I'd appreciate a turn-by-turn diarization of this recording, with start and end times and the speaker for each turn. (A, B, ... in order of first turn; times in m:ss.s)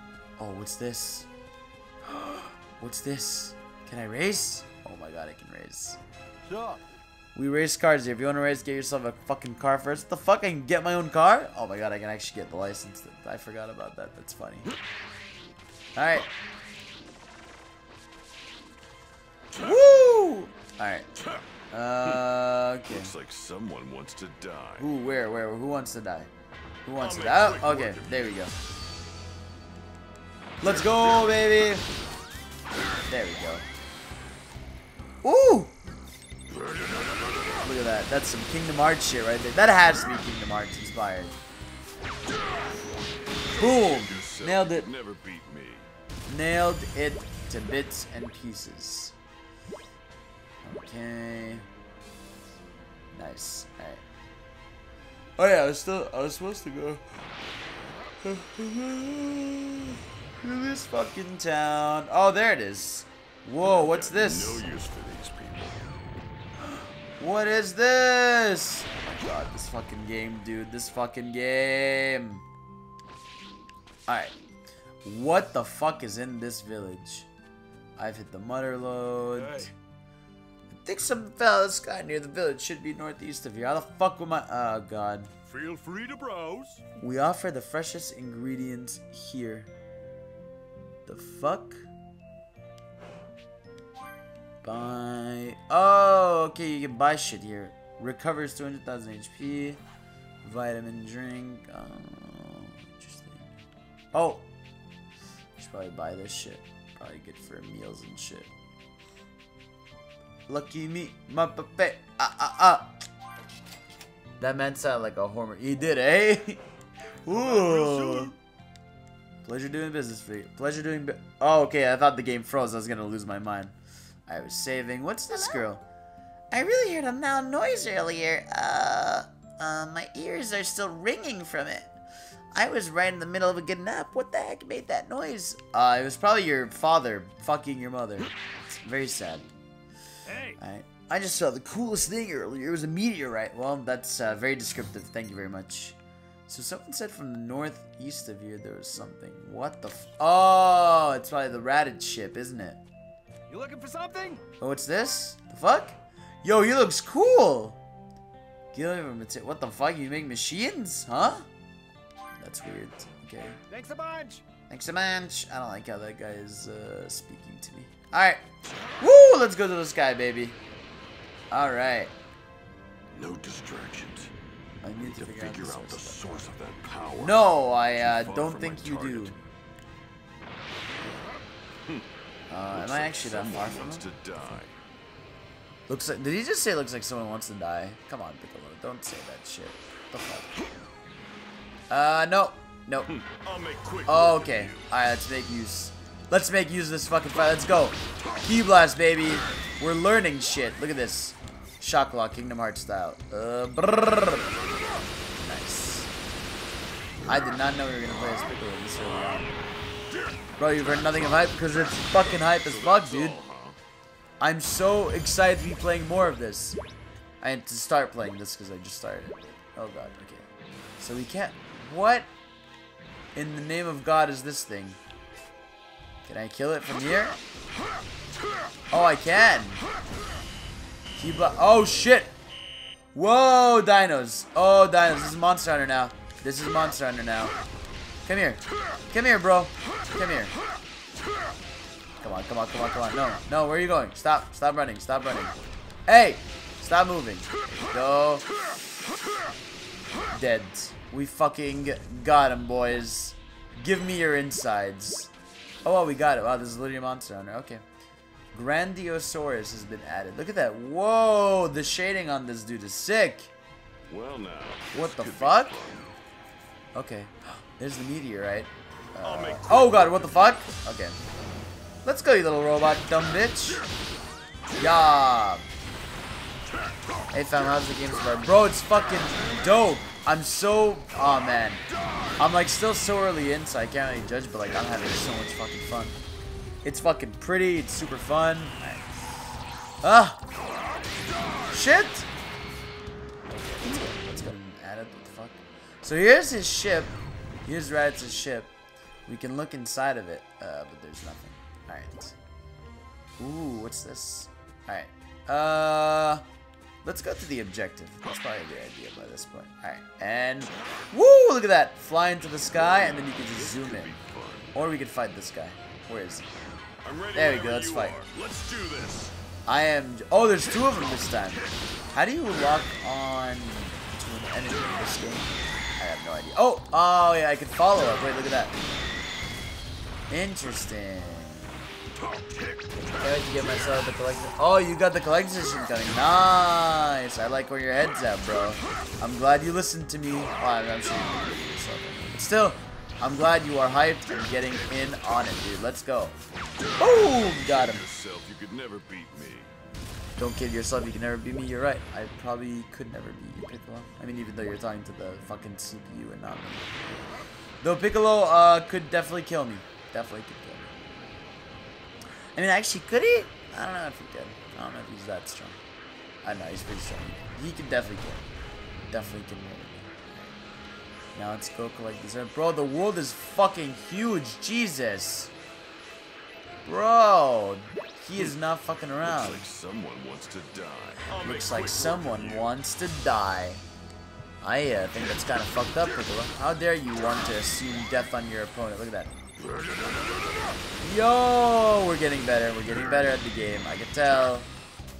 0:00.4-0:01.3 A
0:02.1-0:06.0 A
0:06.5-0:06.8 B
0:07.3-0:14.7 A
0:16.0-0:16.3 A
0:19.5-0:19.8 C
0:19.6-0:21.1 A
0:21.2-0:21.4 C
0:21.7-0:23.1 A
0:22.9-0:24.9 C
0:24.8-0:26.3 A
0:26.8-0:28.5 A
0:27.0-0:28.5 C
0:30.6-0:31.9 A
0:30.6-0:31.4 C
0:33.1-0:33.6 A
0:35.2-0:35.7 A
0:36.5-0:37.4 C
0:37.6-0:41.4 A
0:43.4-0:45.9 C
0:43.5-0:44.9 A
0:46.3-0:49.1 A
0:50.6-0:51.6 A
0:53.1-0:54.0 A
0:55.4-0:57.0 A
0:58.2-1:04.6 A
1:03.6-1:06.0 C
1:06.7-1:12.4 A
1:14.1-1:14.3 A
1:15.0-1:17.3 A
1:18.0-1:19.7 A
1:19.3-1:19.7 C
1:20.7-1:25.3 A
1:25.5-1:26.8 C
1:27.0-1:29.7 A
1:31.0-1:31.9 A
1:34.6-1:39.8 A
1:40.4-1:43.5 A
1:44.1-1:44.4 A
1:45.6-1:48.5 A
1:50.5-1:53.0 A
1:54.4-1:56.6 A
1:57.2-1:58.3 A
1:57.3-1:58.3 C
1:59.4-2:03.7 A
2:04.3-2:05.8 A
2:06.5-2:12.0 A
2:12.5-2:19.5 A
2:20.3-2:20.6 B
2:20.6-2:26.0 A
2:26.5-2:32.8 A
2:33.5-2:34.4 B
2:34.6-2:37.8 A
2:38.7-2:41.5 A
2:42.4-2:43.6 A
2:43.7-2:44.4 B
2:44.7-2:48.4 A
2:49.0-2:50.6 A
2:51.5-2:52.1 A
2:53.1-2:54.3 C
2:54.8-2:56.5 A
2:55.0-2:57.4 C
2:57.2-2:59.4 A
2:58.0-2:59.4 C
3:02.5-3:04.6 A
3:02.7-3:04.8 C
3:05.9-3:10.6 A
3:11.9-3:13.1 A
3:13.1-3:14.9 C
3:14.0-3:24.5 A
3:25.4-3:26.1 A
3:27.2-3:29.5 A
3:30.6-3:33.4 A
3:31.0-3:31.4 C
3:32.1-3:33.8 C
3:34.4-3:36.8 A
3:37.4-3:40.4 A
3:41.0-3:42.3 A
3:43.3-3:45.0 A
3:46.2-3:47.4 A
3:48.9-3:49.8 A
3:51.2-3:52.3 A
3:53.1-3:57.6 A
3:58.2-4:00.6 A
4:02.2-4:05.5 A
4:06.0-4:08.5 A
4:10.3-4:15.3 A
4:15.8-4:17.8 A
4:18.5-4:23.5 A
4:24.1-4:26.2 C
4:24.9-4:25.8 A
4:26.9-4:31.2 A
4:29.2-4:30.5 C
4:32.0-4:33.8 A
4:34.8-4:35.7 A
4:37.3-4:41.8 A
4:42.4-4:46.2 A
4:46.8-4:49.0 A
4:50.0-4:50.4 A
4:51.7-4:52.2 A
4:53.8-4:58.7 A
4:59.3-5:02.3 A
5:03.4-5:06.4 A
5:07.0-5:14.2 A
5:12.8-5:14.8 C
5:14.7-5:16.5 A
5:17.0-5:19.3 C
5:17.3-5:18.2 A
5:19.7-5:28.8 A
5:30.3-5:31.7 A
5:32.1-5:33.2 C
5:33.1-5:46.4 A
5:46.9-5:49.7 C
5:47.0-5:48.0 A
5:50.4-5:56.9 A
5:57.8-6:00.9 A
6:02.5-6:05.8 A
6:06.4-6:08.4 A
6:09.1-6:10.3 A
6:11.3-6:15.5 A
6:16.8-6:19.6 A
6:19.2-6:22.7 C
6:21.4-6:23.8 A
6:24.6-6:29.3 A
6:29.6-6:30.8 C
6:31.0-6:34.7 A
6:32.9-6:33.3 C